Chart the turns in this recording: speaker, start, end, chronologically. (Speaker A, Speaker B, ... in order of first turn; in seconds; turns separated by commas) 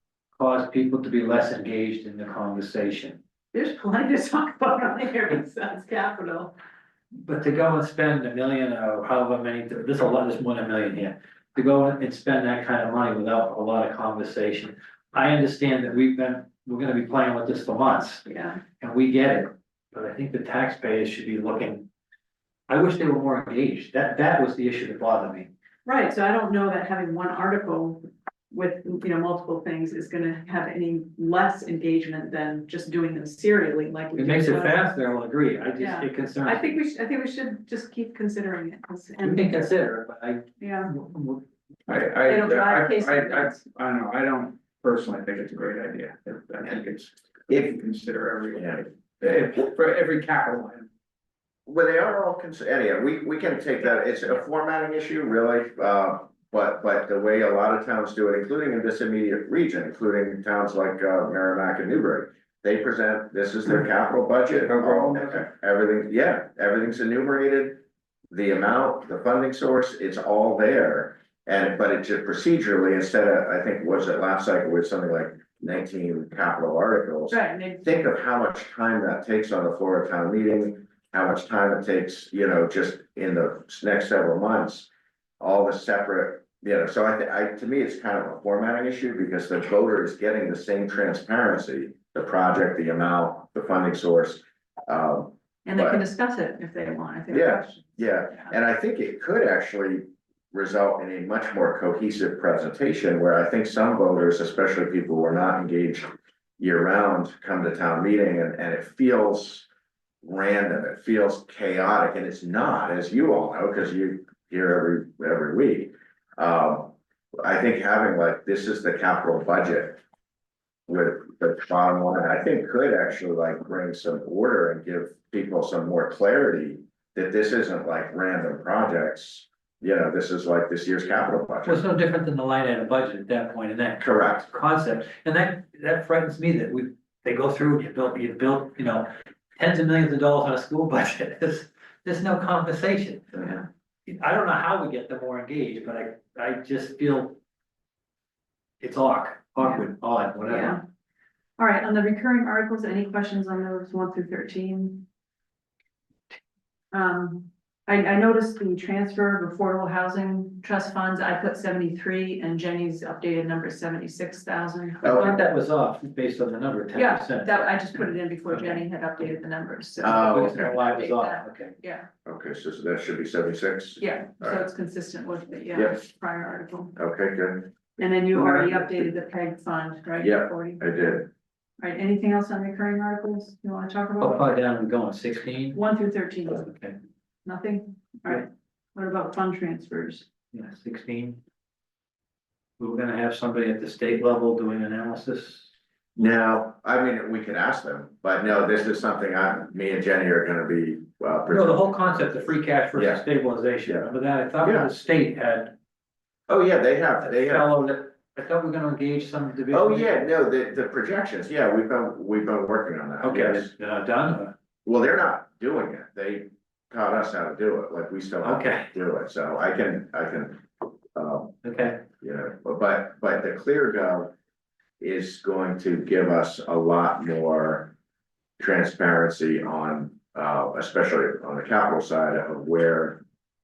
Speaker A: 0.3-3.2, Speaker B: 3.5-6.5, Speaker A: 7.2-18.2, Speaker B: 18.2-18.6, Speaker A: 18.8-21.9, Speaker A: 22.7-25.5, Speaker B: 25.8-34.9, Speaker A: 34.1-36.7, Speaker B: 35.8-39.7, Speaker A: 39.2-41.4, Speaker B: 40.6-40.9, Speaker C: 41.9-50.9, Speaker B: 42.2-43.6, Speaker D: 48.5-48.9, Speaker D: 51.6-84.9, Speaker C: 64.5-65.5, Speaker B: 77.3-78.0, Speaker D: 85.4-96.0, Speaker B: 95.6-98.5, Speaker D: 97.3-106.0, Speaker D: 106.6-109.7, Speaker D: 110.2-120.0, Speaker D: 120.9-131.8, Speaker A: 131.7-143.4, Speaker D: 134.0-134.5, Speaker B: 143.3-143.7, Speaker A: 144.1-147.4, Speaker A: 148.8-150.8, Speaker B: 150.4-150.8, Speaker B: 151.6-155.1, Speaker B: 156.9-165.3, Speaker D: 165.0-165.4, Speaker A: 165.0-168.8, Speaker B: 166.9-172.1, Speaker D: 170.0-170.7, Speaker A: 170.0-171.7, Speaker D: 172.2-174.6, Speaker B: 174.0-177.0, Speaker D: 175.7-176.0, Speaker D: 176.9-177.7, Speaker B: 178.0-180.8, Speaker D: 180.2-181.3, Speaker B: 181.8-184.5, Speaker A: 184.2-185.8, Speaker B: 185.7-186.6, Speaker A: 186.5-187.0, Speaker B: 187.4-190.3, Speaker A: 190.5-191.4, Speaker A: 192.8-195.7, Speaker D: 196.2-203.2, Speaker A: 201.5-205.7, Speaker D: 204.6-204.9, Speaker D: 206.5-207.7, Speaker A: 207.2-210.3, Speaker D: 209.7-213.7, Speaker A: 213.2-214.5, Speaker D: 214.8-220.6, Speaker A: 218.4-218.9, Speaker D: 221.1-221.5, Speaker A: 221.6-222.0, Speaker D: 222.2-224.3, Speaker D: 225.0-227.9, Speaker D: 228.6-233.2